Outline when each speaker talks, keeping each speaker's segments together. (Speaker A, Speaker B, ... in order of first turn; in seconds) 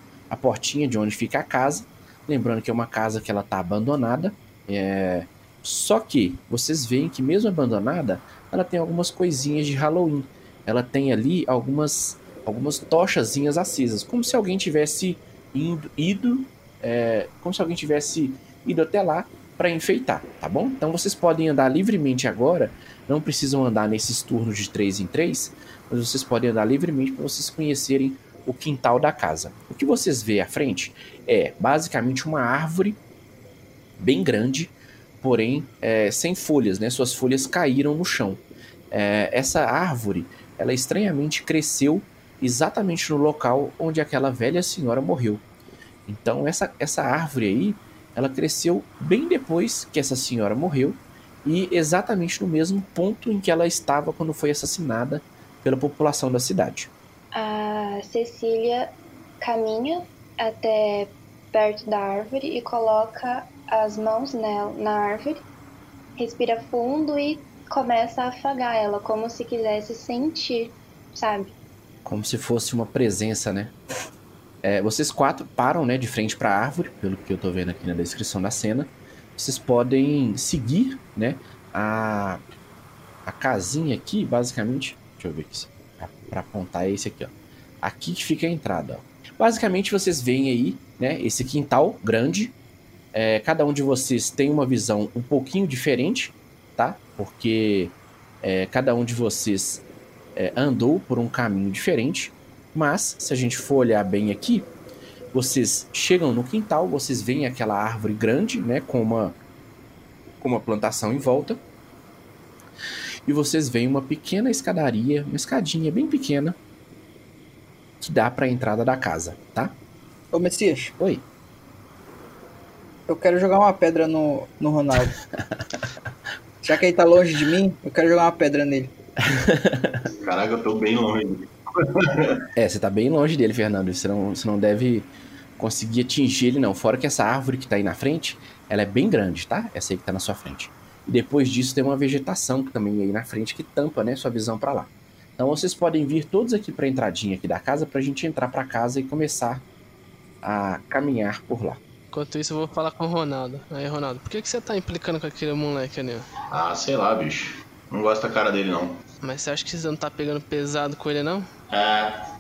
Speaker A: 0.3-33.0, 34.0-45.4, 46.1-56.9, 72.0-73.7, 74.6-82.4, 83.2-92.5, 93.1-99.8, 100.3-104.7, 105.3-109.4, 110.4-111.6, 113.2-116.6, 118.0-119.8, 121.0-121.2, 129.2-130.0, 132.5-149.7, 150.4-151.8
Speaker B: 57.3-65.4, 66.2-71.5
Speaker C: 120.3-120.9, 123.1-125.1, 126.6-128.9
Speaker D: 130.1-132.4, 156.5-159.0, 161.7-162.2
Speaker E: 152.1-156.2, 159.2-161.5